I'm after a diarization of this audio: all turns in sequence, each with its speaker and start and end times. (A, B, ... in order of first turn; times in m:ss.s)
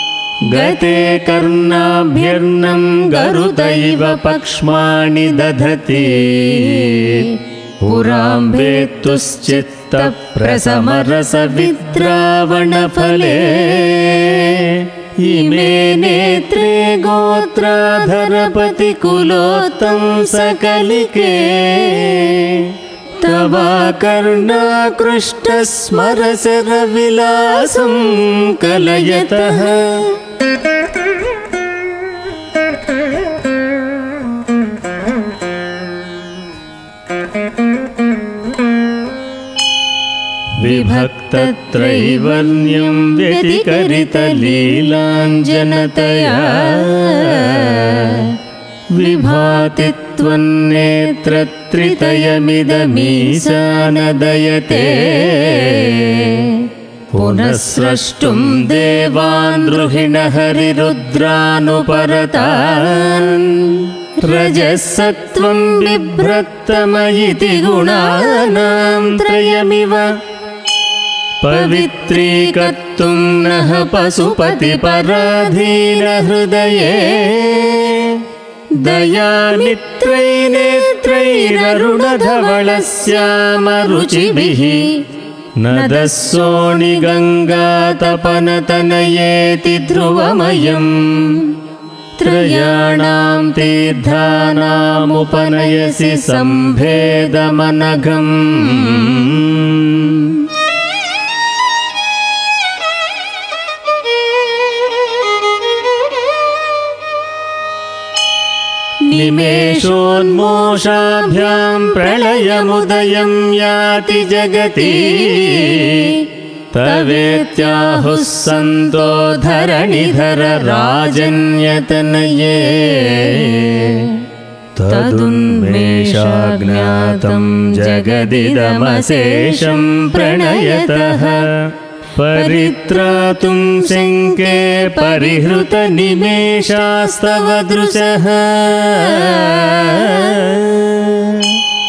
0:00.4-0:30.2 A
0:40.6-0:48.4 A
0:48.9-1:10.1 A
1:11.4-1:25.0 A
1:25.6-1:31.6 A
1:32.2-1:40.5 A
1:49.1-2:04.2 A
2:04.8-2:21.6 A